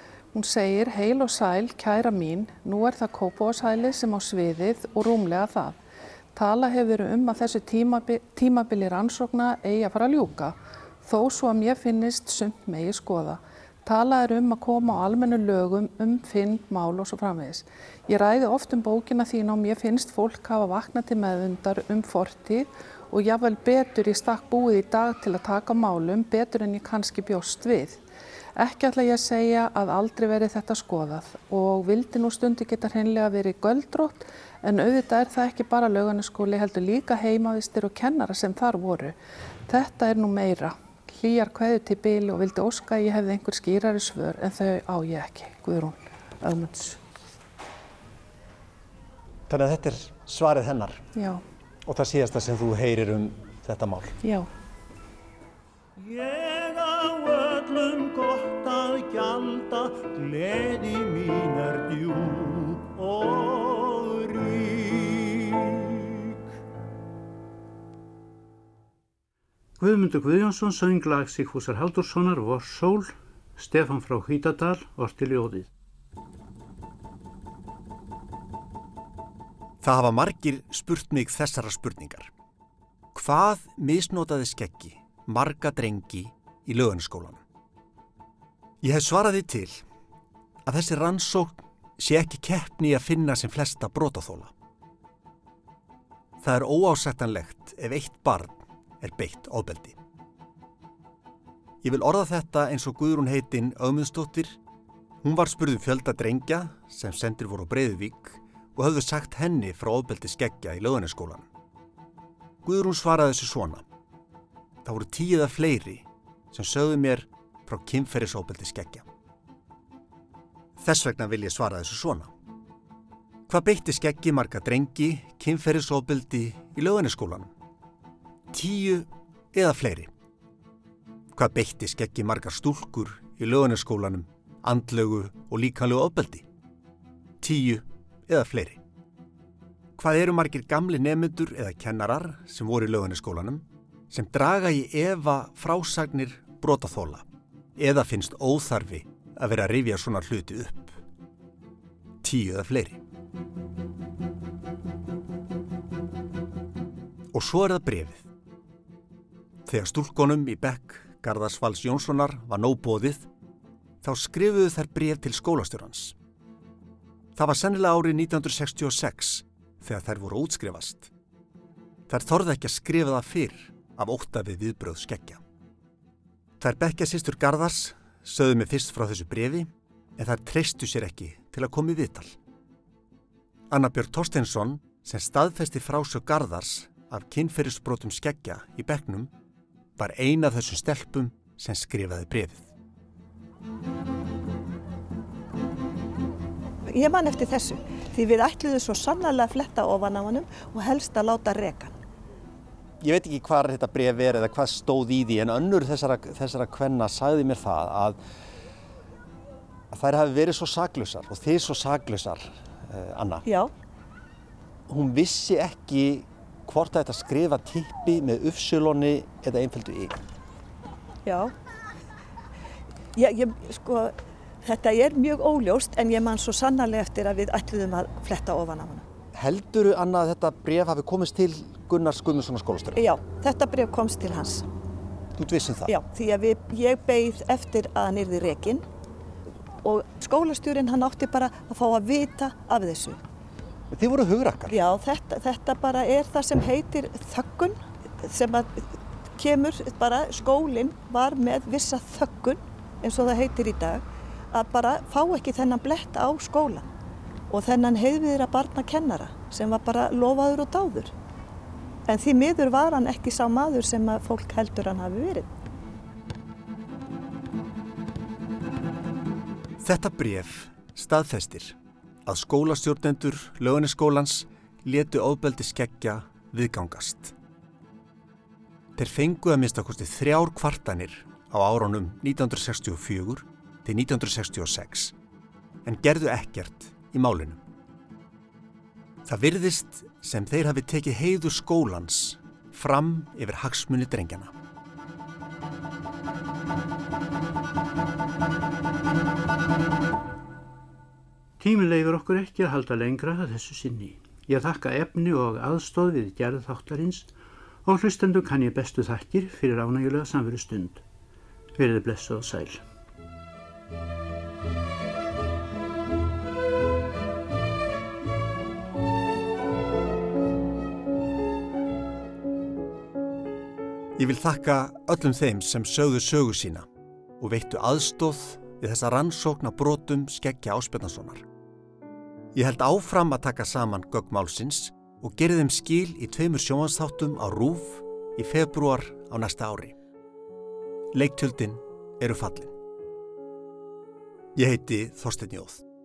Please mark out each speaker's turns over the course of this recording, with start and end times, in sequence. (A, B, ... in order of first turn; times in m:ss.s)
0:00.3-0:05.8 A
0:06.3-0:28.0 A
0:28.6-0:47.0 A
0:49.5-0:51.0 B
0:51.1-0:51.4 A
0:51.8-0:54.2 B
0:54.2-0:54.5 A
0:56.0-1:06.2 C
1:09.8-1:15.7 D
1:19.8-1:22.3 B
1:23.1-1:27.4 B
1:28.8-1:29.8 B
1:30.6-1:34.5 B
1:36.4-1:40.0 B
1:41.8-1:44.6 B
1:45.2-1:51.5 B
1:52.6-1:53.8 B
1:54.8-1:59.0 B
2:00.8-2:02.3 B
2:03.5-2:07.5 B
2:08.5-2:10.1 B
2:11.3-2:16.4 B
2:17.4-2:18.8 B
2:20.0-2:27.2 B
2:27.8-2:31.0 B
2:32.2-2:33.0 B
2:37.3-2:38.2 B
2:39.6-2:43.3 B
2:44.0-2:46.2 B
2:47.4-2:51.1 B
2:52.1-2:55.4 B
2:56.6-3:02.3 B
3:03.7-3:09.3 B
3:10.0-3:12.7 B
3:16.9-3:21.9 E
3:23.0-3:28.2 B
3:29.9-3:33.4 B
3:33.4-3:33.7 E
3:34.9-3:40.2 B
3:41.2-3:41.5 E
3:43.2-3:44.1 E
3:44.6-3:49.0 E
3:49.3-3:53.0 B
3:53.0-3:54.7 E
3:55.4-3:55.9 B
3:55.9-3:58.8 E
3:59.8-4:03.2 E
4:03.9-4:04.8 B
4:04.7-4:16.8 E
4:17.5-4:21.1 E
4:22.1-4:25.5 E
4:29.8-4:37.3 B
4:39.0-4:45.1 B
4:45.8-4:47.6 B
4:49.2-4:54.5 B
5:01.6-5:07.3 D
5:07.8-5:11.0 D
5:11.8-5:12.8 D
5:24.2-5:26.8 B
5:27.4-5:31.4 B
5:32.5-5:39.9 B
5:41.1-5:42.7 B
5:44.5-5:45.8 B